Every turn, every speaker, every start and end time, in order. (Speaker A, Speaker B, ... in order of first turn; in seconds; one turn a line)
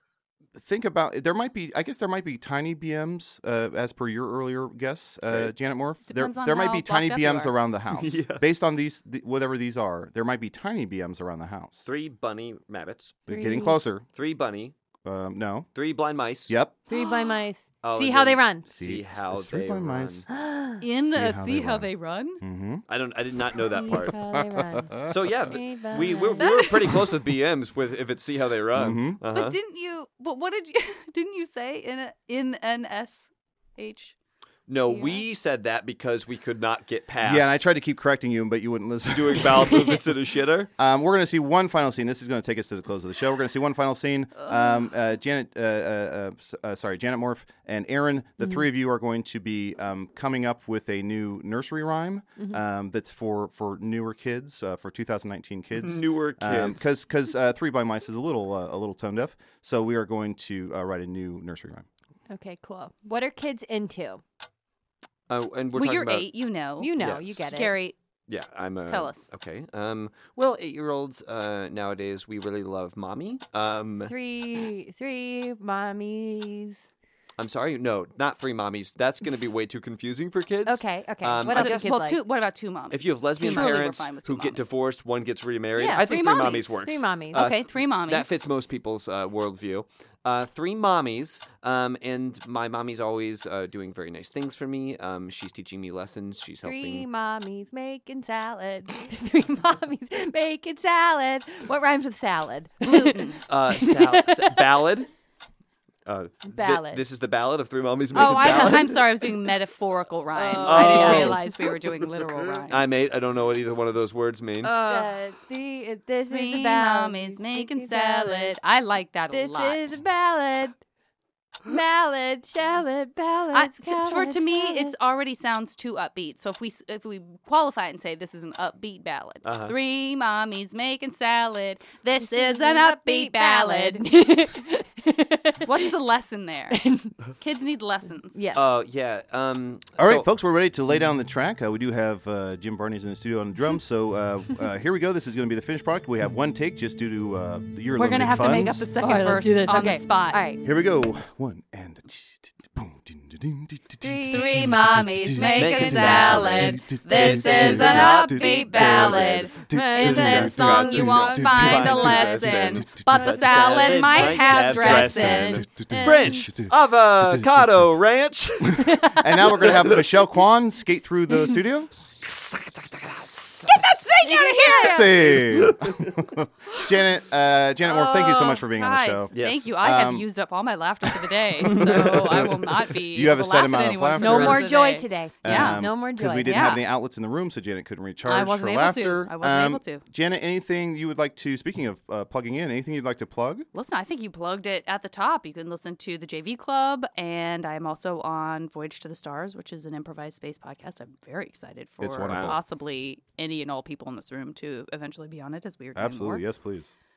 Speaker A: 0.5-11.9
Speaker B: 5.3-5.5
Speaker C: 6.0-7.6
Speaker B: 7.9-8.4
Speaker B: 11.8-13.2
Speaker A: 13.2-14.1
Speaker D: 13.3-13.8
Speaker B: 14.1-14.7
Speaker A: 15.0-15.7
Speaker B: 15.7-16.6
Speaker A: 16.5-16.7
Speaker D: 16.9-18.6
Speaker C: 16.9-17.4
Speaker B: 17.8-20.2
Speaker A: 18.7-20.3
Speaker D: 20.3-20.8
Speaker C: 20.8-22.4
Speaker A: 20.9-21.9
Speaker A: 22.4-22.8
Speaker B: 22.9-24.1
Speaker D: 23.7-26.6
Speaker A: 24.3-25.3
Speaker B: 25.0-29.6
Speaker C: 26.4-27.0
Speaker A: 28.7-29.2
Speaker C: 29.3-34.1
Speaker B: 34.7-37.7
Speaker D: 34.9-35.2
Speaker A: 37.2-40.0
Speaker B: 39.1-40.7
Speaker A: 40.8-61.9
Speaker B: 55.8-56.9
Speaker D: 62.3-64.2
Speaker B: 65.3-66.3
Speaker C: 65.7-66.9
Speaker D: 66.8-67.8
Speaker B: 67.0-67.4
Speaker C: 67.5-68.0
Speaker B: 68.3-74.1
Speaker C: 68.9-69.3
Speaker D: 74.0-76.8
Speaker B: 77.4-82.0
Speaker D: 80.6-82.2
Speaker C: 81.4-84.7
Speaker B: 82.9-97.1
Speaker D: 83.4-83.8
Speaker D: 85.8-86.0
Speaker C: 85.8-86.8
Speaker D: 86.8-87.5
Speaker C: 87.3-88.4
Speaker D: 96.6-104.9
Speaker C: 102.8-103.4
Speaker B: 103.5-105.1
Speaker B: 106.0-109.0
Speaker D: 106.5-107.0
Speaker D: 108.1-109.1
Speaker C: 108.1-112.9
Speaker D: 110.3-111.8
Speaker B: 110.6-111.4
Speaker B: 112.7-114.8
Speaker C: 114.6-115.2
Speaker D: 114.8-118.6
Speaker C: 116.3-120.0
Speaker D: 119.3-120.8
Speaker D: 121.7-124.9
Speaker C: 123.5-134.0
Speaker B: 129.4-129.7
Speaker D: 132.2-135.9
Speaker C: 135.6-136.8
Speaker D: 136.7-137.1
Speaker C: 137.4-138.4
Speaker D: 138.3-138.8
Speaker B: 138.5-140.3
Speaker A: 140.0-148.9
Speaker C: 147.9-150.4
Speaker D: 149.0-150.6
Speaker A: 150.6-163.3
Speaker D: 154.0-156.5
Speaker C: 154.3-165.6
Speaker B: 155.6-159.4
Speaker D: 157.3-162.3
Speaker B: 160.2-170.1
Speaker D: 163.1-166.5
Speaker A: 165.0-167.9
Speaker D: 168.8-169.7
Speaker A: 168.8-171.9
Speaker B: 172.2-173.7
Speaker C: 173.7-175.2
Speaker D: 174.2-175.3
Speaker A: 174.7-180.3
Speaker B: 175.3-176.2
Speaker C: 177.8-186.8
Speaker B: 179.3-179.7
Speaker A: 181.6-184.7
Speaker B: 181.7-182.1
Speaker D: 184.2-186.8
Speaker A: 185.4-193.7
Speaker C: 188.2-190.0
Speaker C: 193.7-206.4
Speaker A: 202.0-202.6
Speaker B: 202.2-202.6
Speaker A: 205.9-206.9